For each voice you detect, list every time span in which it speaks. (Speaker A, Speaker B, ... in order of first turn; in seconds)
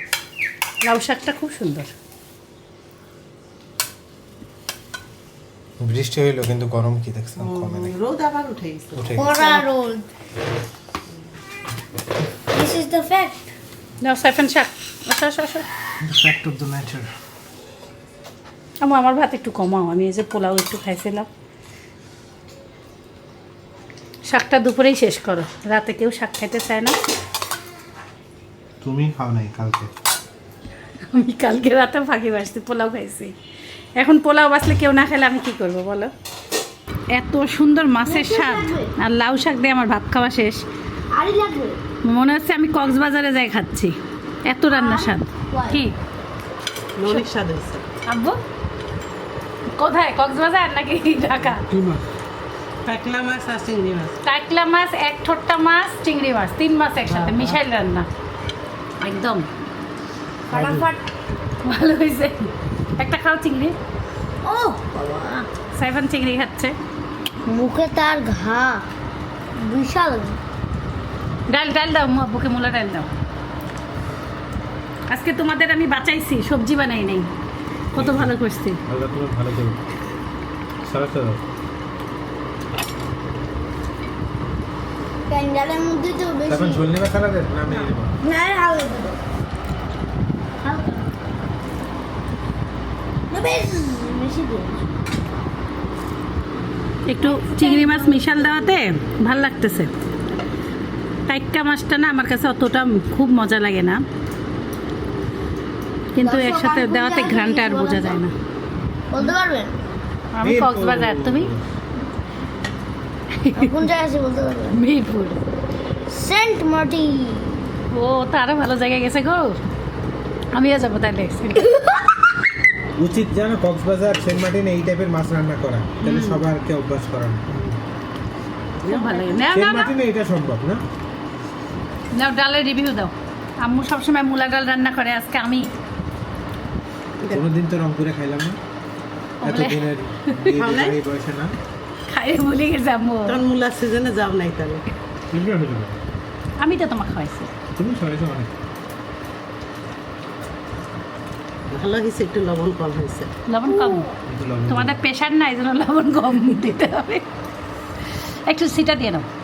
Speaker A: 0.9-1.9, 9.3-9.7, 14.0-15.7, 18.8-21.3, 24.3-27.0, 31.1-33.3, 34.0-36.1, 37.1-40.6, 42.1-44.0, 44.5-45.9, 48.1-48.4, 49.8-51.6, 54.2-58.1, 59.0-59.5, 61.6-63.8, 65.7-66.8, 71.5-73.1, 75.1-77.3, 77.9-78.8, 97.1-99.9, 101.3-104.0, 106.1-108.3, 110.3-111.5, 113.3-113.7, 114.7-115.4, 117.9-119.6, 120.6-121.8, 128.9-129.9, 132.2-135.7, 139.4-140.4, 142.1-143.4, 146.6-147.5, 153.5-154.1, 154.7-157.3, 158.5-159.3
Speaker B: 5.8-7.9, 8.9-9.4, 16.0-17.1, 28.8-29.9, 60.5-60.9, 77.9-78.3, 78.8-79.8, 80.8-81.4, 86.5-88.2, 110.4-111.7, 123.0-127.7, 129.5-130.8, 137.3-138.6, 139.4-141.6, 145.3-146.0, 147.8-148.5, 154.3-155.0
Speaker C: 7.4-9.1, 47.0-47.9, 51.4-52.0, 52.9-54.2, 57.1-57.6, 128.8-129.4, 137.2-137.5, 140.6-141.0, 143.3-144.8, 151.7-153.3
Speaker D: 9.2-10.1, 12.5-13.5, 38.1-38.9, 41.1-41.8, 44.7-45.8, 60.5-61.0, 64.4-65.5, 67.5-68.8, 69.6-70.4, 85.3-86.8, 88.2-89.2, 90.6-91.2, 93.3-94.8, 97.2-98.7, 106.2-108.2, 109.1-109.8, 113.5-114.7, 116.1-117.6